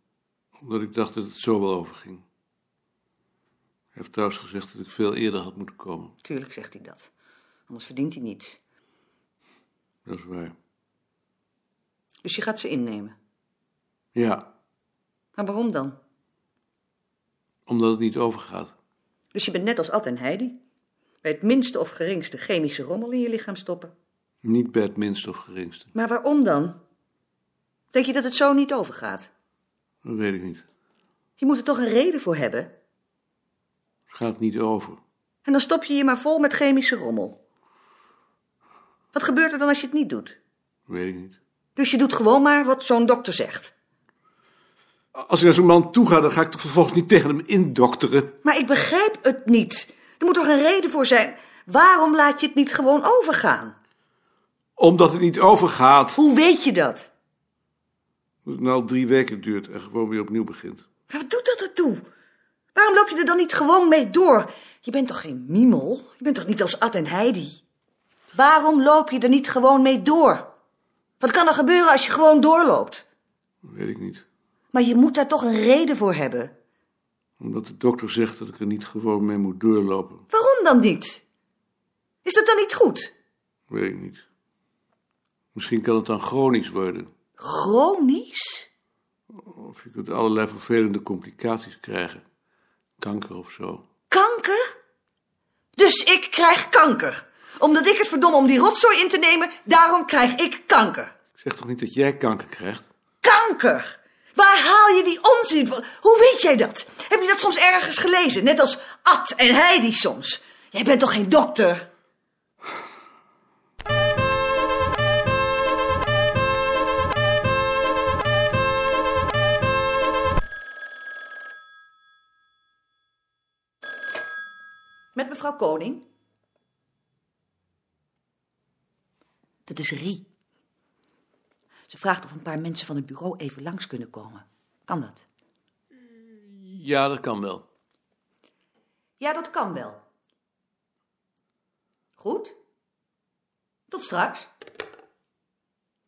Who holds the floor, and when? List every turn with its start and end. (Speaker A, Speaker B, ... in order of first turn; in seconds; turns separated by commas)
Speaker A: 0.6-2.2, Speaker A: 3.9-6.1, Speaker B: 6.2-7.1, Speaker B: 7.7-8.6, Speaker A: 10.1-10.5, Speaker B: 12.2-13.2, Speaker A: 14.1-14.5, Speaker B: 15.3-16.0, Speaker A: 17.7-18.7, Speaker B: 19.3-20.6, Speaker B: 21.2-23.9, Speaker A: 24.4-25.9, Speaker B: 25.9-26.8, Speaker B: 27.9-29.3, Speaker A: 30.0-30.6, Speaker B: 31.4-32.7, Speaker A: 34.1-35.0, Speaker B: 35.4-37.4, Speaker B: 39.1-40.4, Speaker A: 40.9-41.4, Speaker B: 41.8-43.7, Speaker A: 45.1-48.4, Speaker B: 48.4-53.8, Speaker A: 54.8-56.2, Speaker B: 56.1-57.1, Speaker A: 58.5-60.8, Speaker B: 61.1-62.0, Speaker B: 62.7-67.6, Speaker B: 68.3-70.5, Speaker B: 71.2-73.0, Speaker A: 73.6-74.2, Speaker B: 74.7-76.5, Speaker A: 77.4-80.2, Speaker B: 80.3-81.2, Speaker B: 82.2-83.1, Speaker A: 83.7-84.2, Speaker A: 85.5-87.1, Speaker B: 87.4-88.7, Speaker A: 89.3-92.2, Speaker A: 93.0-93.8, Speaker B: 94.1-94.6, Speaker B: 95.8-101.1, Speaker A: 101.4-102.8, Speaker B: 103.2-111.9, Speaker B: 125.1-126.0, Speaker B: 129.7-130.2, Speaker B: 131.9-135.2, Speaker A: 136.3-137.6, Speaker B: 139.2-140.0, Speaker B: 142.2-142.5, Speaker B: 143.9-144.5